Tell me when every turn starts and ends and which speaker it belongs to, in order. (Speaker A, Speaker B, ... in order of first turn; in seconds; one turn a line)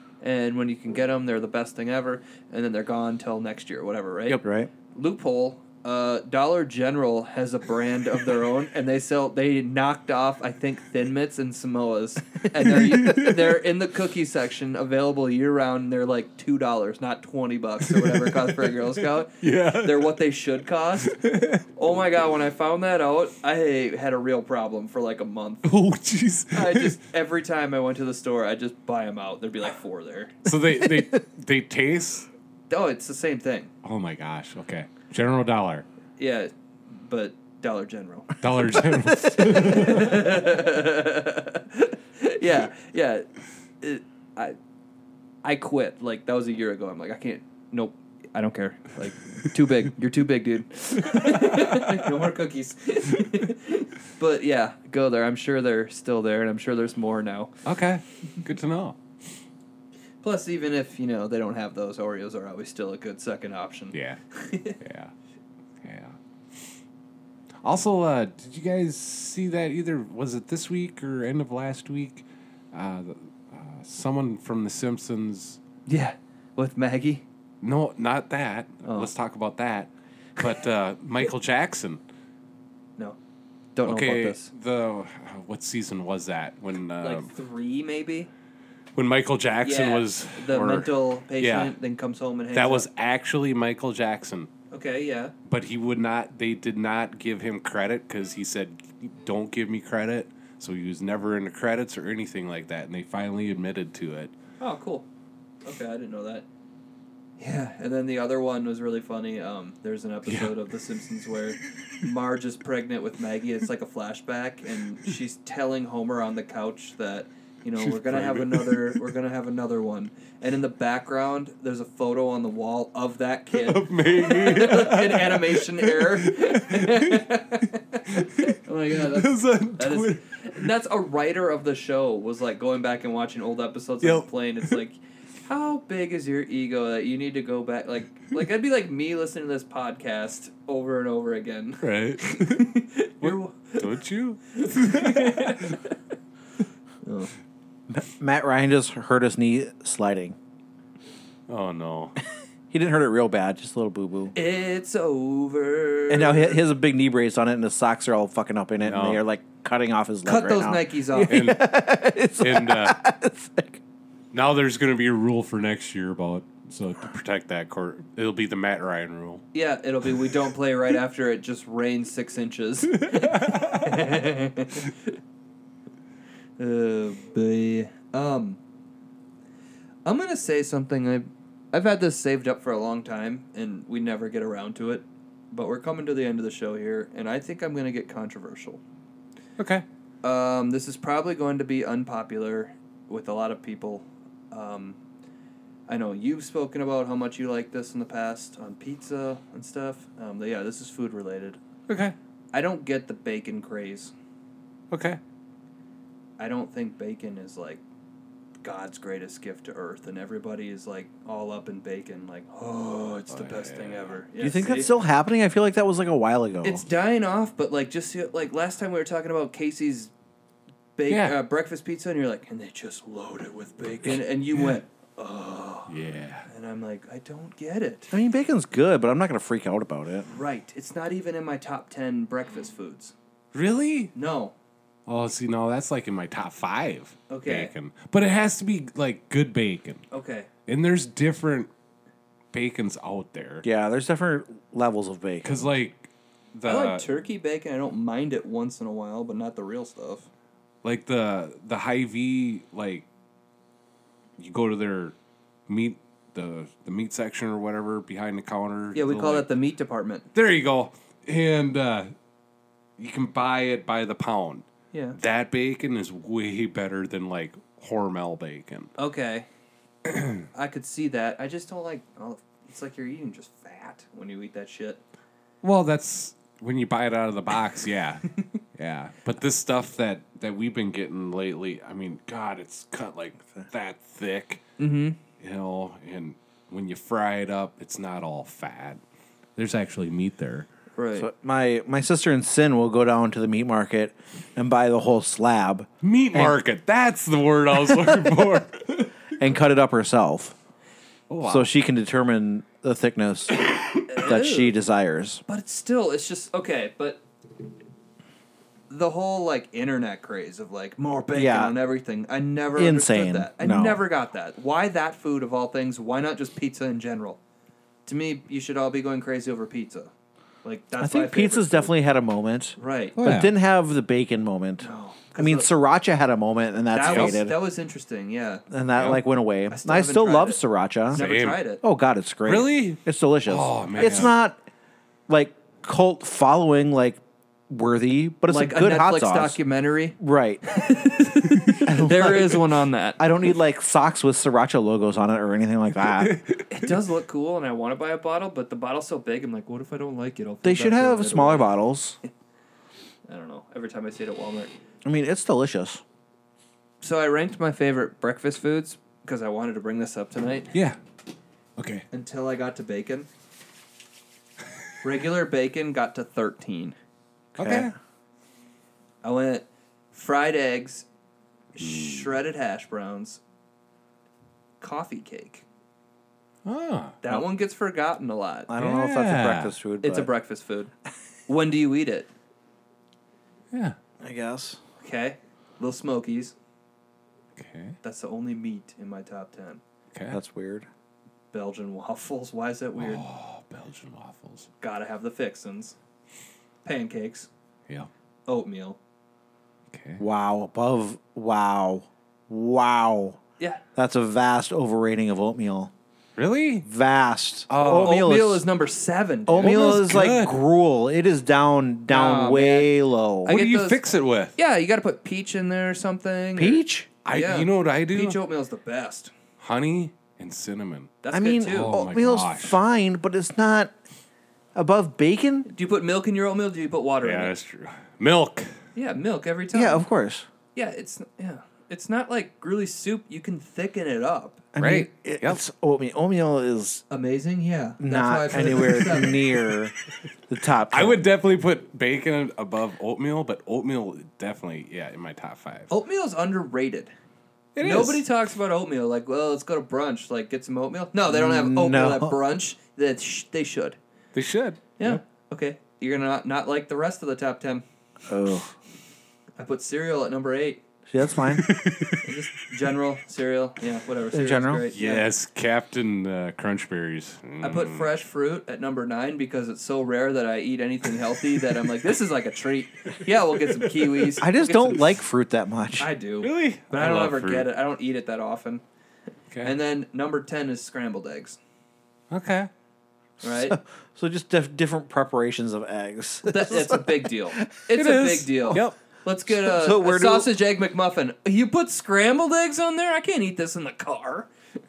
Speaker A: 0.2-21.2
Speaker B: 4.3-4.7
Speaker C: 12.7-13.5
Speaker C: 17.8-20.2
Speaker C: 21.0-21.6
Speaker A: 21.7-25.7
Speaker C: 25.6-27.0
Speaker A: 26.5-30.4
Speaker C: 30.4-32.3
Speaker A: 32.7-33.7
Speaker C: 33.8-35.9
Speaker A: 36.2-38.4
Speaker C: 38.4-40.4
Speaker A: 39.1-43.3
Speaker A: 43.8-44.6
Speaker A: 45.4-57.5
Speaker C: 51.1-51.9
Speaker C: 57.6-59.0
Speaker A: 60.2-64.8
Speaker C: 63.9-64.2
Speaker C: 64.8-65.1
Speaker C: 65.8-66.2
Speaker C: 67.6-75.6
Speaker A: 75.9-77.2
Speaker C: 77.6-82.0
Speaker A: 78.8-79.1
Speaker A: 83.7-84.5
Speaker C: 83.8-87.3
Speaker A: 87.0-88.3
Speaker C: 88.9-91.7
Speaker A: 89.6-92.9
Speaker C: 92.5-94.5
Speaker A: 94.7-95.3
Speaker C: 95.5-104.3
Speaker A: 104.6-105.0
Speaker A: 105.6-106.4
Speaker A: 107.4-143.9
Speaker C: 110.3-110.5
Speaker C: 117.8-119.0
Speaker C: 123.5-127.3
Speaker C: 128.1-130.7
Speaker C: 134.0-134.8
Speaker C: 141.8-142.7
Speaker C: 143.2-145.8
Speaker A: 144.5-145.9
Speaker A: 147.0-147.3
Speaker B: 147.9-150.3
Speaker C: 151.5-152.2
Speaker B: 152.7-154.3
Speaker A: 154.3-156.6
Speaker B: 156.1-163.8
Speaker C: 158.8-159.2
Speaker A: 160.2-161.4
Speaker C: 161.3-161.7
Speaker C: 162.4-163.0
Speaker C: 164.3-169.4
Speaker A: 169.5-174.9
Speaker C: 173.0-174.2
Speaker A: 176.6-178.6
Speaker A: 180.0-188.8
Speaker C: 189.6-189.8
Speaker A: 190.2-195.0
Speaker A: 195.9-201.6
Speaker C: 201.9-202.1
Speaker A: 202.5-204.1
Speaker C: 204.9-205.2
Speaker A: 206.4-207.8
Speaker A: 208.6-214.9
Speaker C: 213.3-214.2
Speaker B: 214.4-216.8
Speaker A: 216.6-220.1
Speaker A: 220.9-225.9
Speaker C: 221.1-221.4
Speaker C: 225.9-226.5
Speaker A: 226.5-228.1
Speaker B: 228.1-230.3
Speaker A: 230.3-233.1
Speaker C: 233.5-234.1
Speaker A: 234.1-234.5
Speaker C: 235.1-240.0
Speaker A: 237.3-237.7
Speaker A: 240.1-240.5
Speaker C: 240.7-241.7
Speaker C: 242.5-243.6
Speaker B: 243.6-245.7
Speaker C: 245.4-247.0
Speaker A: 246.6-250.3
Speaker C: 250.8-253.0
Speaker C: 254.4-255.1
Speaker C: 255.7-259.5
Speaker A: 258.9-260.2
Speaker C: 260.3-262.1
Speaker C: 263.0-268.9
Speaker A: 269.0-269.5
Speaker A: 270.5-275.0
Speaker C: 275.6-284.6
Speaker A: 284.8-285.2
Speaker C: 285.4-289.0
Speaker C: 289.6-290.7
Speaker A: 290.9-291.3
Speaker B: 291.1-296.5
Speaker C: 296.0-299.1
Speaker B: 299.4-300.6
Speaker C: 301.3-301.7
Speaker B: 301.4-305.4
Speaker A: 304.1-304.8
Speaker A: 305.5-307.2
Speaker A: 308.9-317.4
Speaker B: 311.3-311.7
Speaker B: 312.7-314.0
Speaker A: 318.1-320.1
Speaker A: 320.6-321.9
Speaker B: 321.0-327.5
Speaker A: 322.8-323.2
Speaker C: 323.2-323.5
Speaker A: 324.8-325.7
Speaker A: 326.9-328.7
Speaker C: 327.1-327.4
Speaker B: 328.7-331.2
Speaker C: 329.0-329.2
Speaker A: 329.7-331.8
Speaker C: 331.1-331.6
Speaker B: 331.8-334.6
Speaker C: 332.4-334.3
Speaker B: 335.3-339.6
Speaker A: 338.5-343.2
Speaker B: 340.2-340.6
Speaker B: 341.8-342.6
Speaker B: 343.2-346.4
Speaker C: 346.0-346.9
Speaker A: 346.7-351.7
Speaker B: 350.6-352.2
Speaker A: 353.3-354.7
Speaker B: 355.0-356.0
Speaker A: 357.0-360.7
Speaker C: 360.7-361.0
Speaker C: 361.8-362.0
Speaker A: 362.1-363.3
Speaker A: 365.0-366.9
Speaker B: 367.5-367.9
Speaker C: 367.6-367.9
Speaker A: 369.2-371.1
Speaker A: 371.7-373.4
Speaker C: 371.8-372.3
Speaker A: 374.8-375.6
Speaker C: 376.6-377.1
Speaker A: 377.2-378.7
Speaker B: 378.7-380.3
Speaker C: 378.8-379.8
Speaker A: 380.0-380.9
Speaker A: 381.5-382.3
Speaker B: 384.2-384.8
Speaker A: 385.0-386.5
Speaker C: 387.6-387.9
Speaker A: 388.0-389.8
Speaker C: 390.1-390.4
Speaker B: 390.3-390.9
Speaker A: 391.5-393.2
Speaker C: 393.0-394.7
Speaker A: 394.8-395.9
Speaker A: 396.8-397.5
Speaker A: 398.5-399.0
Speaker C: 399.9-400.2
Speaker B: 400.2-403.4
Speaker B: 403.9-405.9
Speaker C: 406.4-406.9
Speaker B: 406.8-408.6
Speaker C: 407.7-408.2
Speaker A: 407.8-409.8
Speaker B: 409.5-413.5
Speaker C: 409.6-410.6
Speaker A: 412.1-412.9
Speaker A: 413.4-414.0
Speaker C: 413.4-414.5
Speaker A: 414.6-419.3
Speaker B: 416.6-417.1
Speaker C: 417.2-418.4
Speaker C: 419.6-422.8
Speaker A: 421.2-422.0
Speaker B: 421.3-423.9
Speaker B: 424.7-425.7
Speaker A: 425.6-427.6
Speaker C: 427.2-428.7
Speaker A: 428.9-430.0
Speaker B: 429.7-430.5
Speaker A: 430.7-434.6
Speaker B: 434.7-437.0
Speaker C: 434.8-435.6
Speaker A: 437.1-439.6
Speaker B: 438.0-439.9
Speaker B: 440.5-441.2
Speaker C: 440.9-445.9
Speaker A: 445.9-447.1
Speaker C: 447.7-448.2
Speaker A: 447.8-454.0
Speaker B: 451.3-452.4
Speaker C: 454.3-455.2
Speaker A: 455.0-457.8
Speaker B: 458.3-458.7
Speaker A: 459.6-460.8
Speaker B: 461.1-461.7
Speaker C: 461.5-462.4
Speaker A: 462.2-465.3
Speaker B: 464.3-464.9
Speaker C: 464.9-468.1
Speaker A: 467.6-475.1
Speaker C: 473.8-474.4
Speaker B: 474.4-476.1
Speaker A: 476.0-478.8
Speaker C: 476.4-477.7
Speaker A: 479.6-481.6
Speaker C: 482.3-482.7
Speaker B: 483.4-487.6
Speaker A: 483.4-483.8
Speaker A: 486.4-494.5
Speaker C: 487.9-488.9
Speaker B: 489.5-490.5